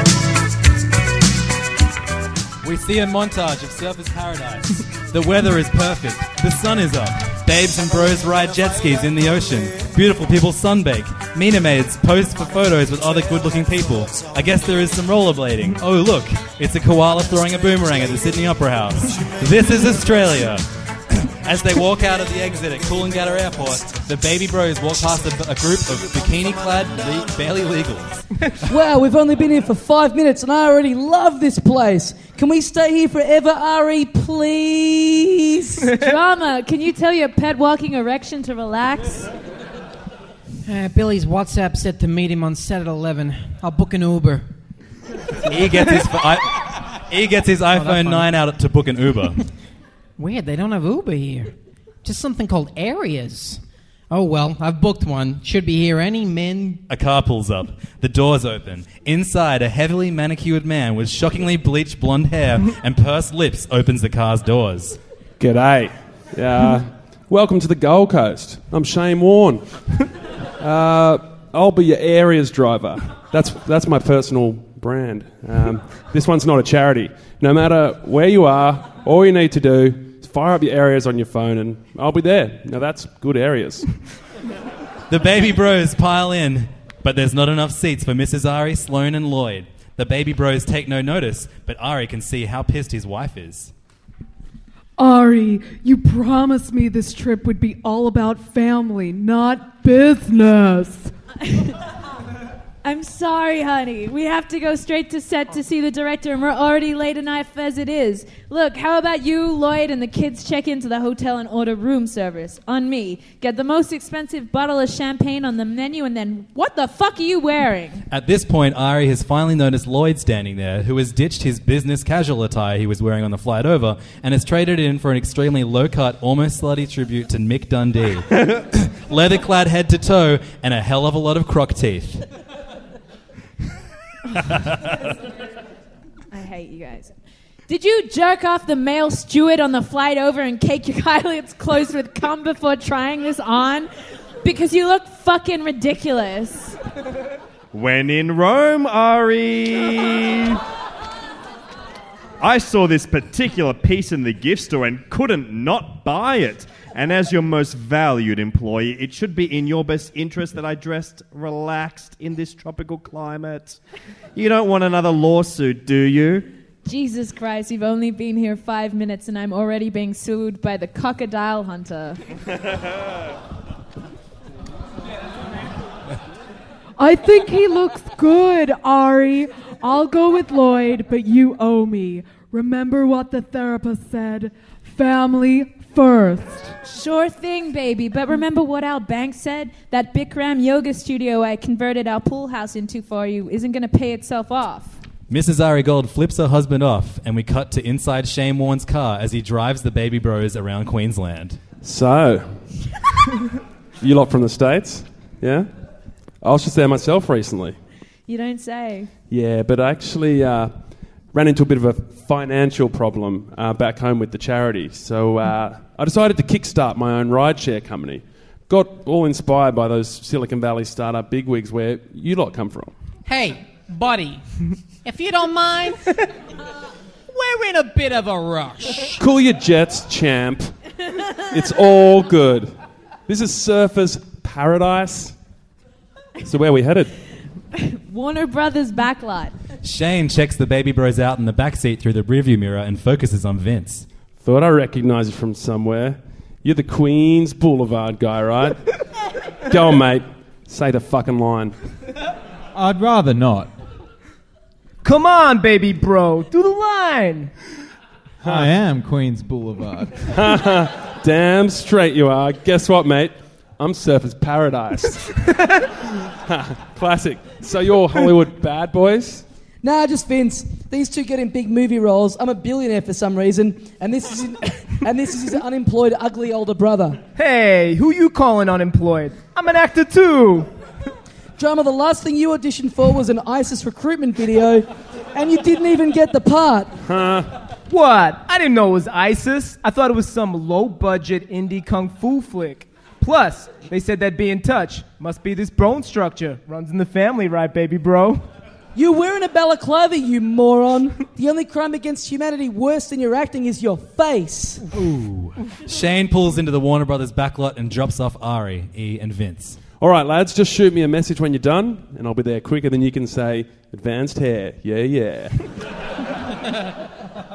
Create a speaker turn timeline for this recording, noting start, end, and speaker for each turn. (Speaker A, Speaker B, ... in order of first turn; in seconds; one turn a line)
Speaker A: 2.6-28.2
Speaker B: 28.7-35.9
Speaker C: 36.0-39.3
Speaker D: 40.6-44.5
Speaker A: 45.5-49.4
Speaker D: 47.8-48.2
Speaker D: 50.2-51.5
Speaker D: 52.0-56.8
Speaker A: 56.9-65.0
Speaker E: 65.4-69.7
Speaker E: 70.6-83.8
Speaker A: 85.1-93.7
Speaker F: 95.0-101.1
Speaker C: 101.4-101.7
Speaker C: 102.8-118.0
Speaker A: 118.1-132.2
Speaker C: 136.3-137.1
Speaker C: 137.7-143.9
Speaker C: 144.4-146.8
Speaker G: 147.7-150.6
Speaker G: 152.4-163.8
Speaker G: 164.3-166.4
Speaker C: 166.8-172.2
Speaker F: 177.0-186.7
Speaker C: 186.8-195.0
Speaker A: 195.3-201.6
Speaker E: 201.8-202.6
Speaker E: 204.0-205.7
Speaker E: 206.4-207.8
Speaker C: 208.3-209.1
Speaker E: 209.3-210.8
Speaker E: 211.3-222.9
Speaker D: 223.2-224.4
Speaker D: 225.0-226.1
Speaker D: 227.3-229.2
Speaker E: 229.2-230.7
Speaker E: 231.5-232.7
Speaker E: 233.3-235.3
Speaker E: 236.4-237.1
Speaker C: 237.8-239.5
Speaker A: 239.8-244.1
Speaker E: 244.4-248.8
Speaker E: 249.7-251.7
Speaker H: 252.7-253.7
Speaker I: 255.0-257.5
Speaker H: 258.4-260.4
Speaker E: 260.3-265.2
Speaker E: 266.4-269.4
Speaker B: 269.8-277.2
Speaker I: 277.4-280.7
Speaker B: 281.6-286.9
Speaker E: 287.0-287.5
Speaker I: 287.9-298.4
Speaker B: 298.9-304.8
Speaker A: 305.0-309.8
Speaker E: 310.0-315.6